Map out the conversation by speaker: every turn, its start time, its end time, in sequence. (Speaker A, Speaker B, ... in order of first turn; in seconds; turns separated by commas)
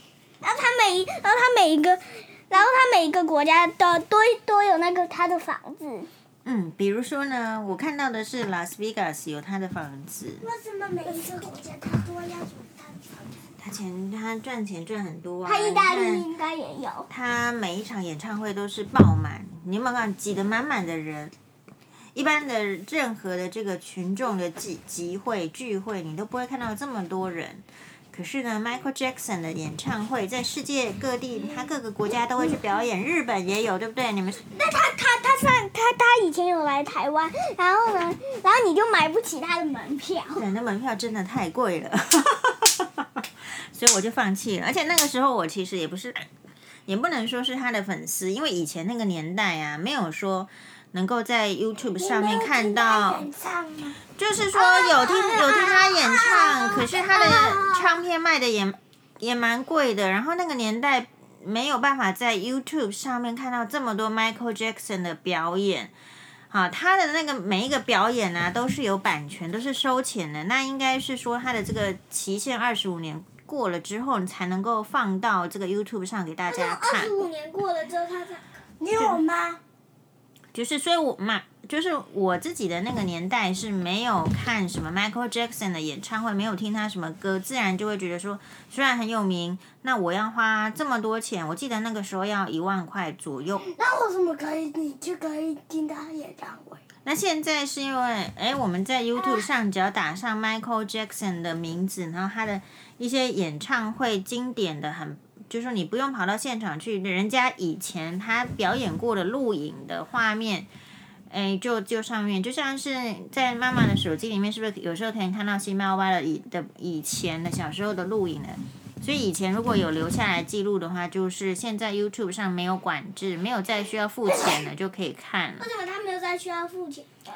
Speaker A: 0.4-6.1, Speaker B: 6.5-10.4, Speaker C: 10.4-13.4, Speaker B: 13.6-16.3, Speaker A: 15.4-17.1, Speaker B: 17.1-21.3, Speaker B: 22.1-34.4, Speaker A: 34.5-40.4, Speaker B: 40.4-43.1, Speaker B: 43.7-46.3, Speaker B: 46.9-53.3, Speaker C: 52.0-54.0, Speaker B: 54.2-65.9, Speaker C: 54.9-58.0, Speaker B: 66.5-77.1, Speaker A: 76.5-78.5, Speaker C: 78.8-79.6, Speaker B: 80.5-93.7, Speaker C: 93.6-96.8, Speaker B: 97.0-110.7, Speaker C: 99.2-99.5, Speaker B: 111.3-125.7, Speaker A: 125.6-127.1